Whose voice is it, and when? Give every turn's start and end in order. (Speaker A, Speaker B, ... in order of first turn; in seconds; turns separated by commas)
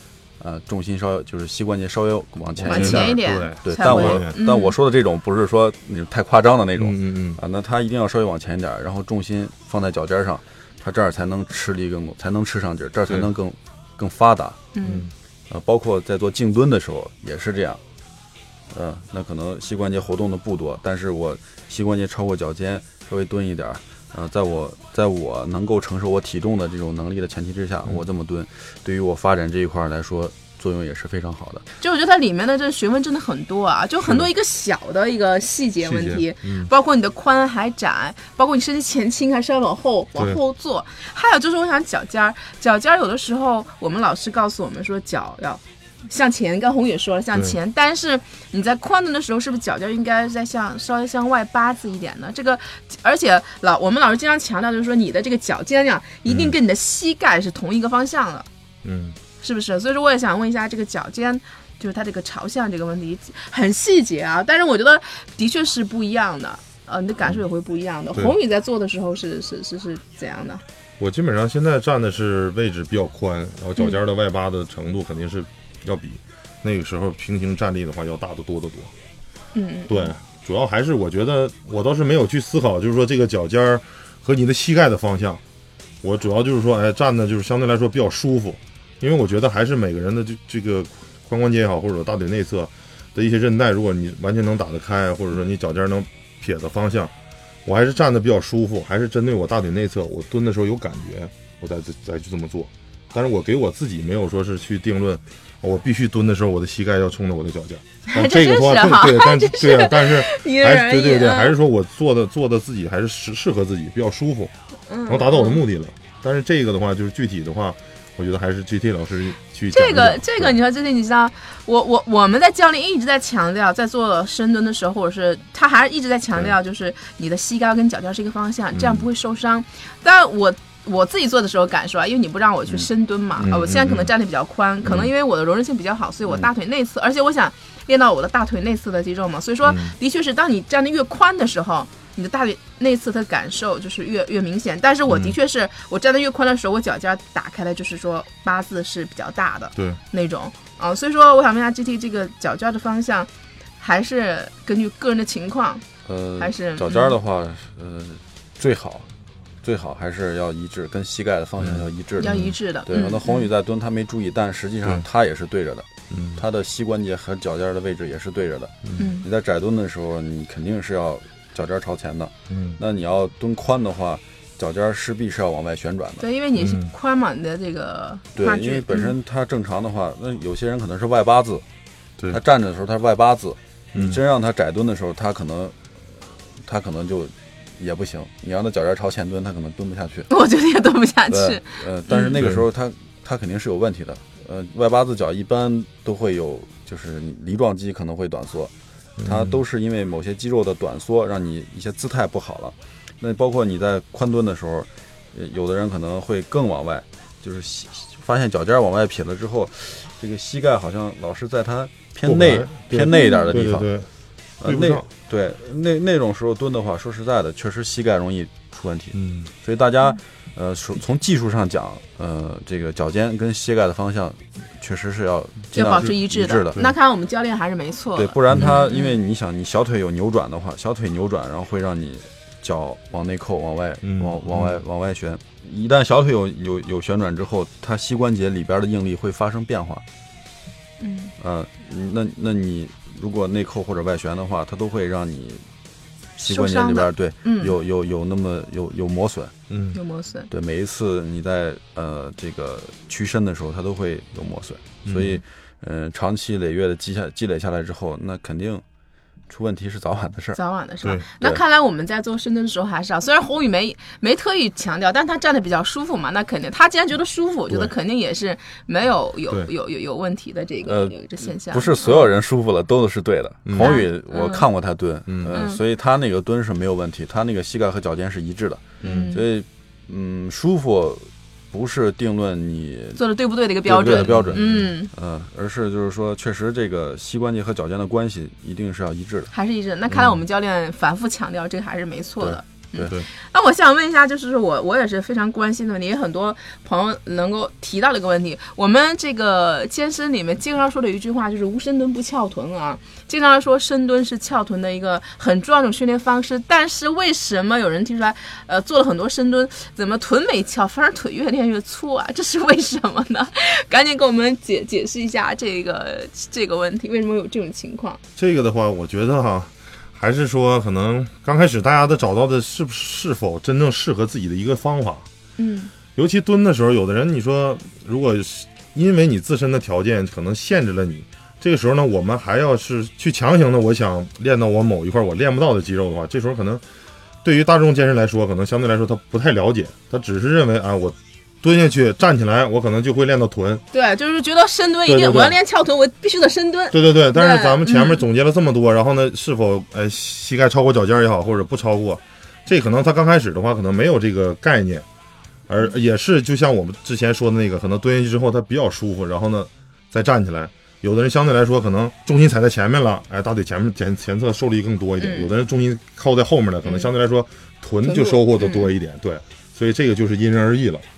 Speaker A: 0.4-14.6, Speaker B: 2.5-4.3, Speaker C: 2.6-4.7, Speaker B: 6.8-7.4, Speaker C: 14.7-15.1, Speaker B: 14.8-15.1, Speaker A: 15.5-17.8, Speaker A: 18.7-31.6, Speaker C: 31.8-58.5, Speaker B: 35.8-36.7, Speaker B: 56.2-56.5, Speaker B: 58.8-59.2, Speaker C: 59.4-70.6, Speaker B: 71.0-78.9, Speaker C: 79.5-80.1, Speaker B: 79.9-85.4, Speaker B: 86.0-97.1, Speaker B: 97.6-114.5, Speaker C: 108.1-111.5, Speaker C: 114.9-115.6, Speaker B: 115.1-120.5, Speaker C: 119.7-155.8, Speaker B: 128.7-129.1, Speaker B: 133.4-134.1, Speaker B: 139.6-139.9, Speaker B: 145.1-145.3, Speaker A: 156.0-159.1, Speaker C: 156.4-157.2, Speaker A: 159.6-176.2, Speaker B: 161.6-162.5, Speaker C: 162.2-163.5, Speaker B: 166.1-166.4, Speaker C: 169.0-169.2, Speaker B: 172.5-172.8, Speaker C: 176.2-179.1, Speaker B: 176.6-176.9, Speaker A: 178.3-181.6, Speaker A: 182.3-190.3, Speaker B: 183.9-184.2, Speaker C: 190.3-192.4, Speaker A: 191.3-198.7, Speaker B: 192.3-192.6, Speaker B: 199.2-199.6, Speaker A: 199.2-213.9, Speaker B: 212.2-214.1, Speaker C: 213.1-213.5, Speaker A: 214.6-226.8, Speaker B: 214.6-215.1, Speaker B: 219.1-219.5, Speaker C: 225.7-229.2, Speaker A: 228.1-240.0, Speaker B: 234.0-234.8, Speaker C: 241.0-241.3, Speaker A: 241.4-245.6, Speaker A: 246.4-249.5, Speaker C: 246.4-247.8, Speaker B: 249.7-250.0, Speaker C: 249.9-250.5, Speaker A: 250.5-258.8, Speaker B: 255.1-255.4, Speaker A: 259.5-260.6, Speaker C: 260.5-272.3, Speaker A: 270.8-283.2, Speaker B: 273.6-274.0, Speaker C: 273.8-274.6, Speaker B: 275.3-275.6, Speaker C: 275.5-275.8, Speaker B: 279.0-279.3, Speaker C: 279.0-279.4, Speaker C: 283.1-285.1, Speaker A: 283.8-289.5, Speaker B: 284.2-284.9, Speaker C: 289.5-318.2, Speaker B: 290.1-290.4, Speaker A: 292.4-293.1, Speaker B: 318.4-325.2, Speaker C: 325.6-325.9, Speaker B: 326.1-336.8, Speaker B: 337.4-343.8, Speaker C: 343.9-348.2, Speaker B: 345.0-345.6, Speaker B: 346.9-355.0, Speaker B: 355.7-371.0, Speaker C: 365.2-365.5, Speaker C: 366.8-367.1, Speaker C: 368.0-368.9